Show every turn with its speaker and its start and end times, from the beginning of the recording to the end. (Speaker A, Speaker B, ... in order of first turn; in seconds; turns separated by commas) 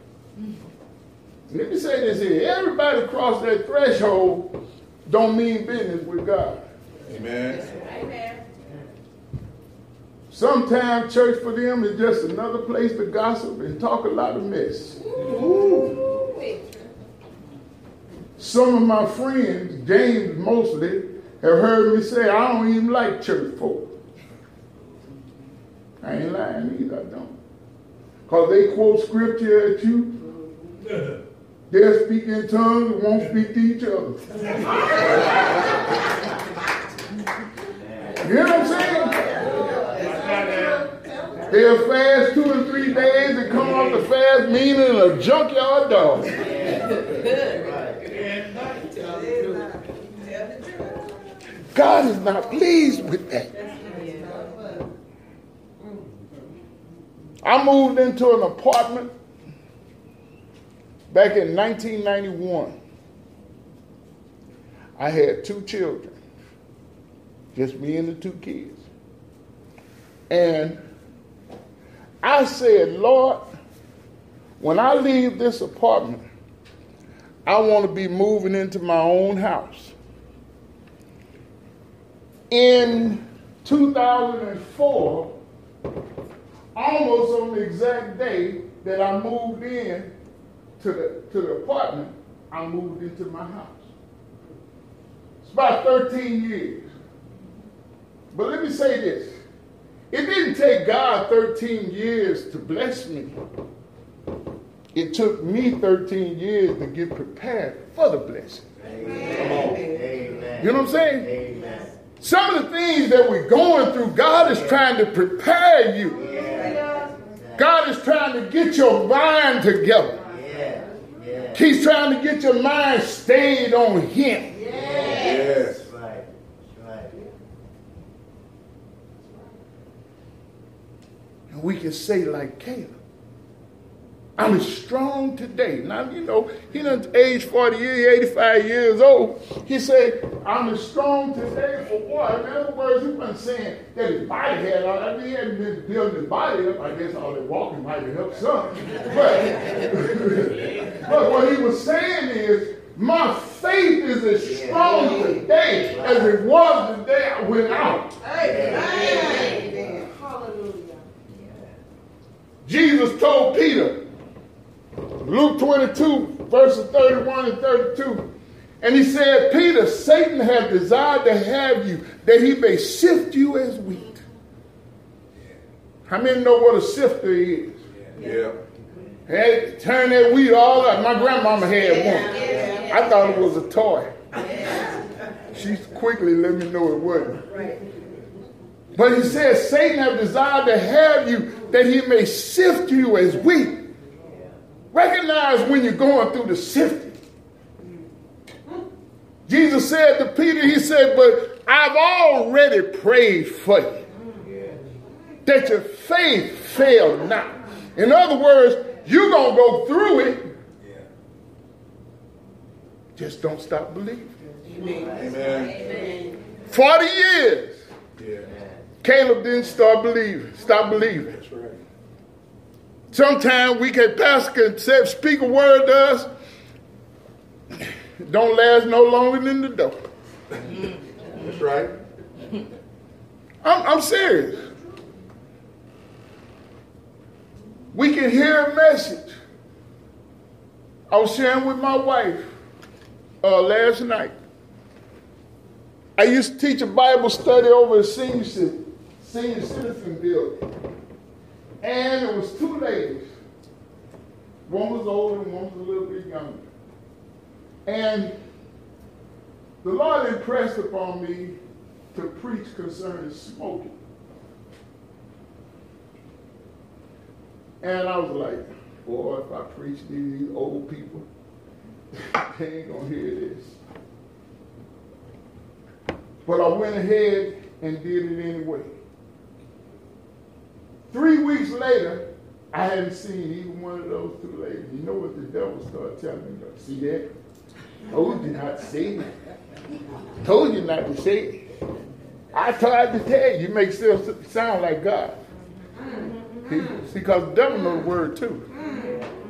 Speaker A: 1.5-4.5, Speaker A: 5.0-6.6, Speaker B: 7.0-7.7, Speaker C: 7.5-8.4, Speaker A: 10.3-15.1, Speaker C: 15.0-16.7, Speaker A: 18.4-23.9, Speaker A: 26.0-27.4, Speaker A: 28.3-30.2, Speaker A: 31.7-34.2, Speaker B: 34.8-35.9, Speaker D: 37.7-39.8, Speaker A: 38.2-39.4, Speaker E: 38.2-41.8, Speaker A: 41.5-46.5, Speaker D: 46.3-48.0, Speaker E: 48.9-50.0, Speaker A: 51.7-53.5, Speaker E: 53.5-54.9, Speaker A: 57.4-59.1, Speaker A: 61.1-62.8, Speaker A: 65.0-66.2, Speaker A: 67.5-68.8, Speaker A: 70.3-70.8, Speaker A: 72.2-73.5, Speaker A: 74.6-76.2, Speaker A: 77.5-79.9, Speaker A: 82.5-85.3, Speaker A: 86.7-90.1, Speaker A: 90.8-93.8, Speaker A: 95.4-96.9, Speaker A: 98.3-99.4, Speaker A: 100.1-103.4, Speaker A: 104.9-108.7, Speaker D: 108.8-111.9, Speaker E: 109.0-110.5, Speaker B: 109.3-109.9, Speaker A: 110.6-111.3, Speaker E: 111.5-111.9, Speaker A: 112.2-116.2, Speaker D: 114.3-114.8, Speaker E: 116.1-117.3, Speaker D: 116.1-117.7, Speaker A: 117.5-120.2, Speaker E: 120.1-121.6, Speaker D: 120.2-121.6, Speaker A: 121.5-124.6, Speaker E: 124.5-125.5, Speaker D: 124.7-127.1, Speaker B: 125.0-125.8, Speaker A: 131.5-132.9, Speaker A: 134.4-158.2, Speaker D: 154.4-155.3, Speaker E: 154.8-155.5, Speaker D: 155.8-156.4, Speaker E: 158.2-161.0, Speaker D: 158.3-159.9, Speaker C: 158.8-159.4, Speaker D: 161.3-161.8, Speaker A: 162.6-164.0, Speaker A: 165.2-168.3, Speaker A: 168.8-174.2, Speaker A: 176.1-177.8, Speaker B: 178.1-178.6, Speaker A: 179.3-184.1, Speaker E: 182.2-183.0, Speaker C: 182.3-182.8, Speaker E: 184.6-184.9, Speaker A: 185.5-187.4, Speaker A: 188.9-193.8, Speaker D: 194.2-194.5, Speaker A: 194.9-197.2, Speaker A: 199.5-204.0, Speaker E: 204.2-205.3, Speaker D: 204.4-204.8, Speaker A: 205.4-210.5, Speaker A: 213.2-214.3, Speaker E: 214.6-216.3, Speaker D: 215.0-215.3, Speaker B: 215.1-215.8, Speaker A: 216.7-217.8, Speaker B: 218.2-218.5, Speaker D: 218.4-218.9, Speaker A: 219.0-221.3, Speaker B: 221.3-221.8, Speaker A: 223.1-226.3, Speaker A: 228.2-230.0, Speaker B: 231.3-231.9, Speaker A: 233.6-234.7, Speaker A: 237.9-239.3, Speaker A: 241.1-242.5, Speaker A: 243.4-244.3, Speaker A: 246.2-250.7, Speaker A: 251.8-253.3, Speaker A: 254.7-256.6, Speaker A: 257.9-258.3, Speaker A: 259.8-261.6, Speaker A: 262.1-263.9, Speaker A: 267.8-271.2, Speaker A: 272.1-273.8, Speaker A: 276.4-278.9, Speaker A: 281.1-287.3, Speaker A: 288.1-289.3, Speaker A: 290.4-291.6, Speaker A: 292.5-295.4, Speaker E: 295.9-297.0, Speaker A: 296.7-298.6, Speaker E: 298.7-299.2